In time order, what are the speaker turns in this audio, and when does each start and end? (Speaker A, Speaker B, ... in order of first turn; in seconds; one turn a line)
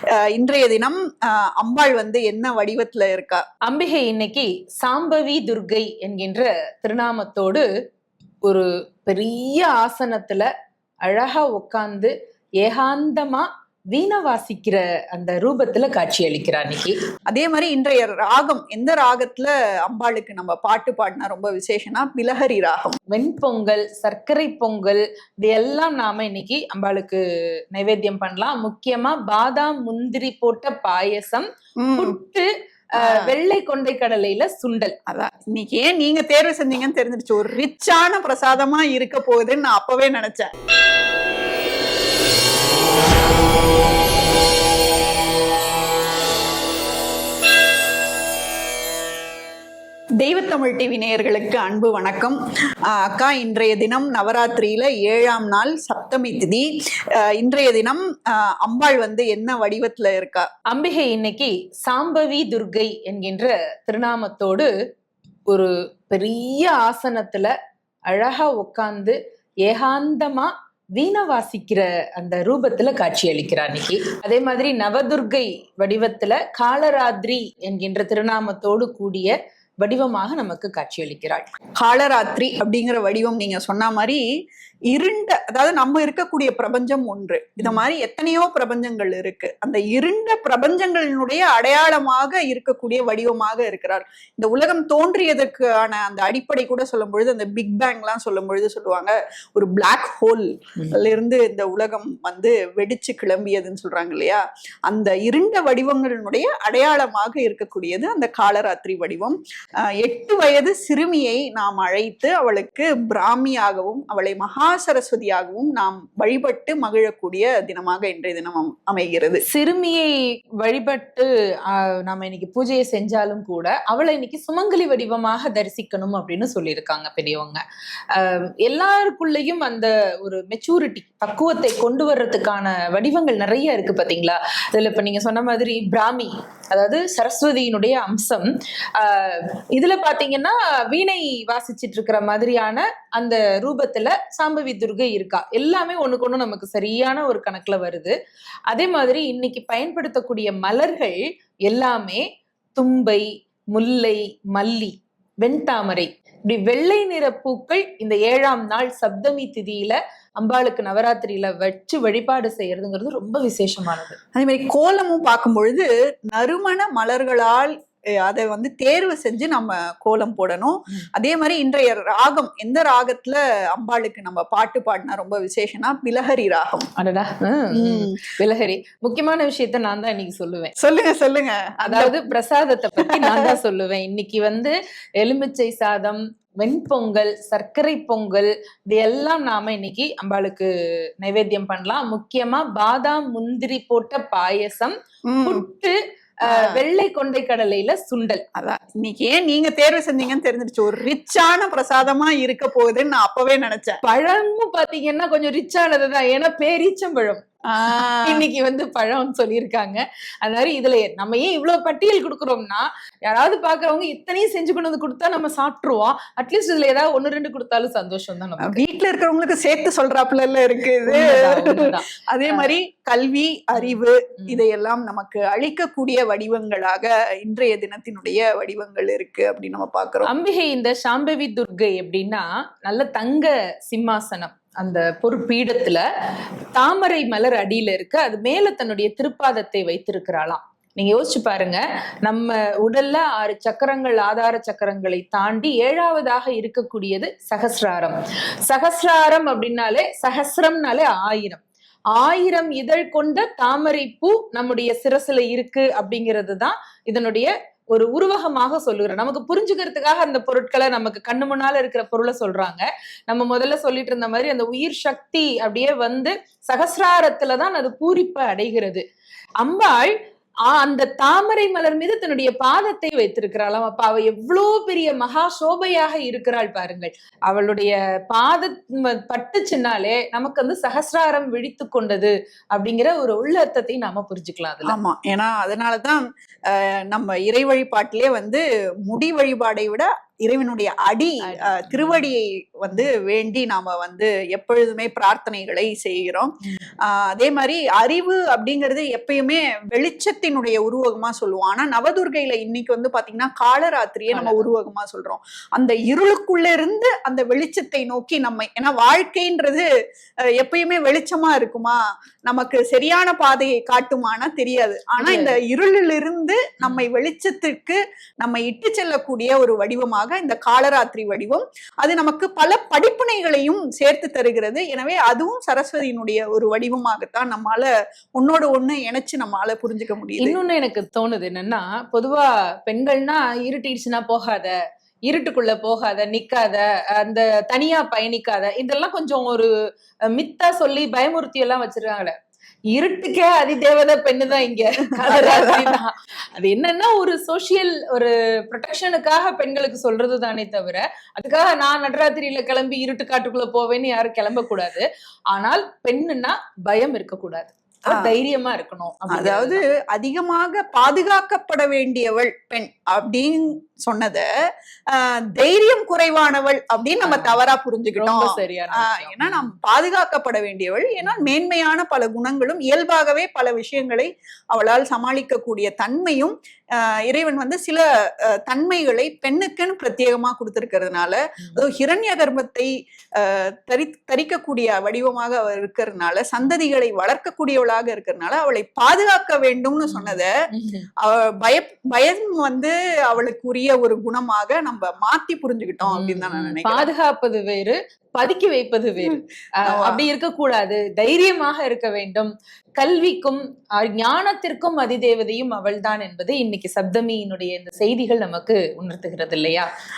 Speaker A: 0.2-3.4
Speaker B: 3.7-7.7
Speaker B: 8.4-10.5
Speaker B: 11.1-16.9
Speaker A: 17.3-23.0
Speaker B: 23.1-27.2
Speaker B: 27.7-35.0
Speaker A: 31.8-32.2
Speaker A: 33.0-33.3
Speaker A: 35.1-40.5
Speaker A: 50.2-52.4
Speaker A: 52.9-56.7
Speaker A: 57.2-60.5
Speaker B: 60.7-64.7
Speaker B: 65.5-67.5
Speaker B: 68.1-81.5
Speaker A: 81.8-84.2
Speaker A: 84.9-109.4
Speaker A: 110.0-119.4
Speaker B: 119.5-148.1
Speaker B: 148.7-152.2
Speaker B: 152.8-164.2
Speaker A: 164.4-176.9
Speaker B: 177.0-180.7
Speaker A: 177.7-178.3
Speaker A: 180.8-182.2
Speaker B: 181.8-190.7
Speaker A: 183.0-183.6
Speaker B: 191.2-198.4
Speaker A: 195.3-195.6
Speaker A: 196.5-196.8
Speaker A: 198.6-204.0
Speaker B: 204.0-218.8
Speaker A: 207.7-208.4
Speaker A: 218.6-230.3
Speaker B: 221.1-222.7
Speaker B: 230.3-236.0
Speaker B: 236.8-248.2
Speaker B: 248.7-251.6
Speaker B: 252.2-269.0
Speaker B: 269.6-270.1
Speaker B: 270.7-285.0
Speaker A: 284.9-296.5
Speaker B: 291.5-292.3
Speaker A: 297.1-309.9
Speaker B: 304.3-304.7
Speaker A: 310.6-330.6
Speaker B: 315.2-315.6
Speaker B: 330.4-334.8
Speaker B: 335.3-339.7
Speaker B: 340.3-342.3
Speaker B: 342.9-359.8
Speaker A: 345.2-346.0
Speaker A: 359.3-364.5
Speaker A: 365.1-376.5
Speaker B: 367.2-367.6
Speaker B: 368.2-369.8
Speaker A: 377.2-390.5
Speaker B: 390.1-391.1
Speaker A: 391.2-397.1
Speaker B: 396.1-409.9
Speaker A: 399.2-400.2